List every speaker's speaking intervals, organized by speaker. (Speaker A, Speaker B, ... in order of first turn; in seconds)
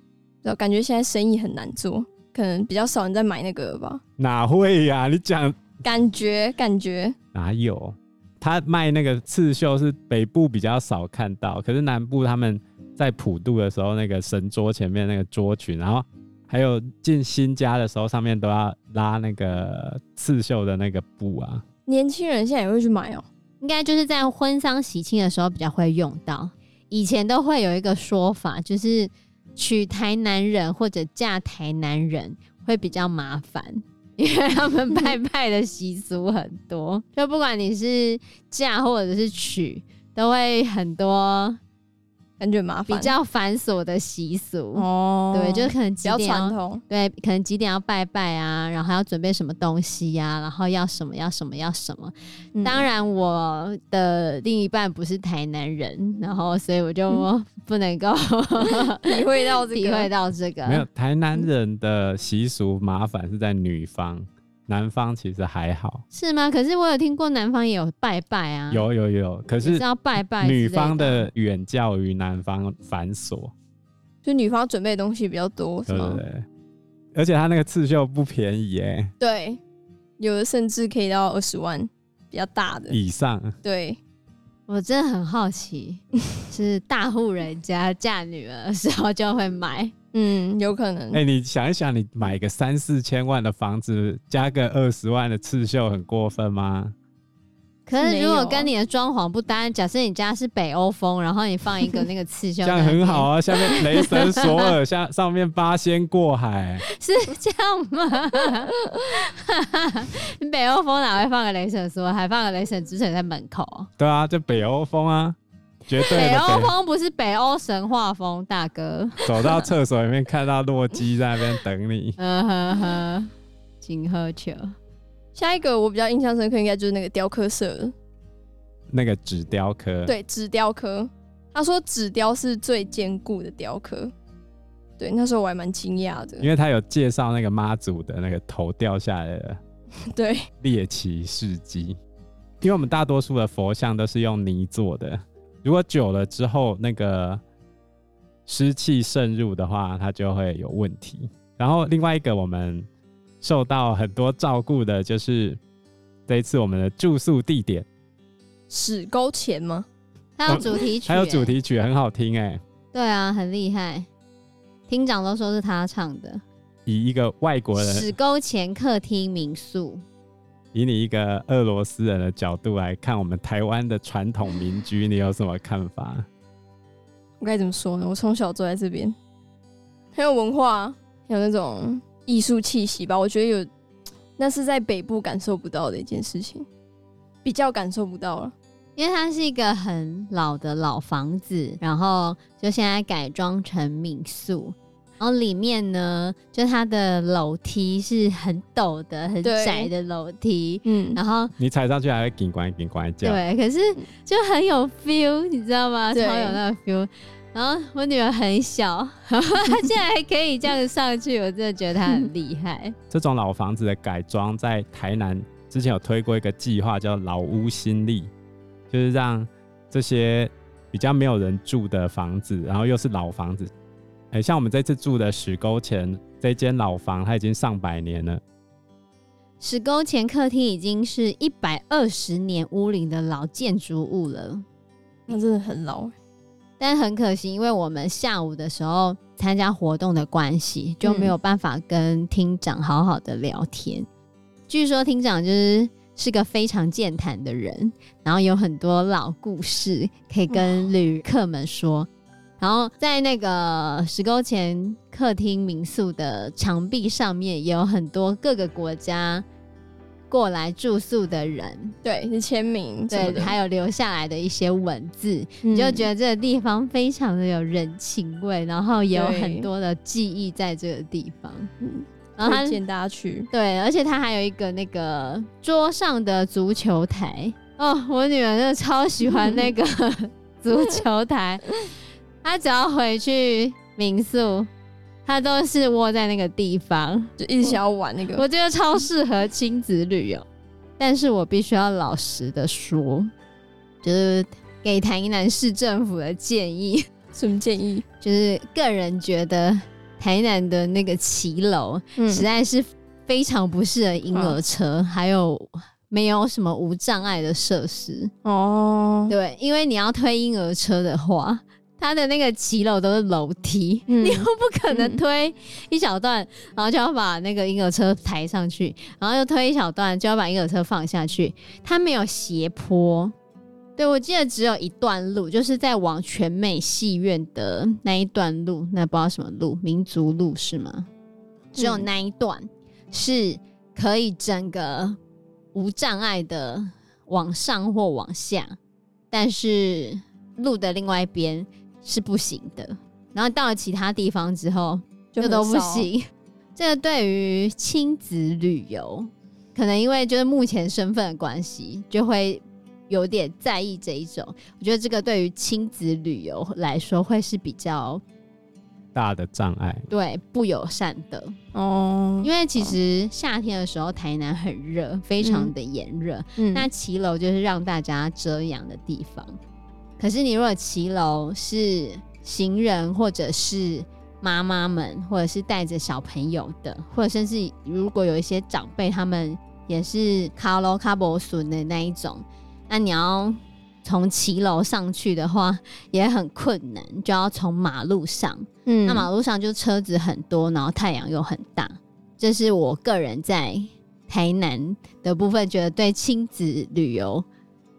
Speaker A: 0.4-4.0, 5.8-7.2, 21.9-23.2, 42.4-43.1, 44.8-46.8, 52.5-52.9, 59.0-60.1, 74.2-76.2, 79.2-79.6, 80.2-83.0, 83.6-84.0, 90.1-91.2, 97.9-98.7, 125.3-127.9, 130.1-134.1, 135.0-136.5, 140.1-140.5, 158.7-159.9, 177.4-179.2, 180.2-183.7, 184.4-186.7, 187.4-188.5, 199.4-199.9, 200.8-201.2, 206.1-206.6, 235.3-236.1, 241.0-241.3, 250.5-250.9, 262.0-263.6, 265.6-266.1, 269.1-269.7, 271.8-273.5, 287.4-288.4, 297.4-298.1, 302.2-302.5, 304.3-304.6, 308.4-309.3, 314.1-315.2, 331.8-332.1, 345.3-346.1, 361.7-363.0, 365.4-365.7, 366.6-366.9, 388.9-389.3
Speaker B: 4.2-5.7, 7.3-21.6, 60.7-66.0, 68.7-69.8, 70.4-73.5, 75.9-76.5, 77.2-79.1, 82.9-83.6, 91.1-96.9, 102.6-106.8, 114.0-115.4, 115.9-116.7, 119.2-122.2, 128.9-130.1, 136.4-139.6, 140.6-141.9, 142.6-147.4, 148.5-152.9, 153.4-155.6, 156.3-157.9, 160.5-162.6, 166.9-168.1, 170.7-176.3, 201.6-203.4, 213.1-218.3, 218.9-223.7, 224.3-228.4, 359.1-360.1
Speaker C: 23.6-41.6, 42.9-60.9, 66.1-68.9, 69.6-71.3, 84.7-89.9, 97.9-104.5, 106.9-113.9, 115.9-119.7, 122.2-124.8, 160.4-161.6, 162.9-164.1, 164.9-166.4, 167.8-170.0, 189.0-201.5, 203.2-213.0, 229.6-234.6, 236.8-244.1, 244.7-252.1, 252.6-259.4, 260.3-261.9, 263.1-271.7, 272.4-272.8, 273.5-281.8, 282.4-284.7, 285.2-287.8, 288.3-290.5, 291.0-293.3, 294.0-297.1, 298.2-308.3, 309.3-323.3, 324.0-331.1, 331.8-335.2, 335.7-338.8, 339.3-346.2, 346.8-358.2, 360.1-361.6, 362.4-369.6, 370.2-397.5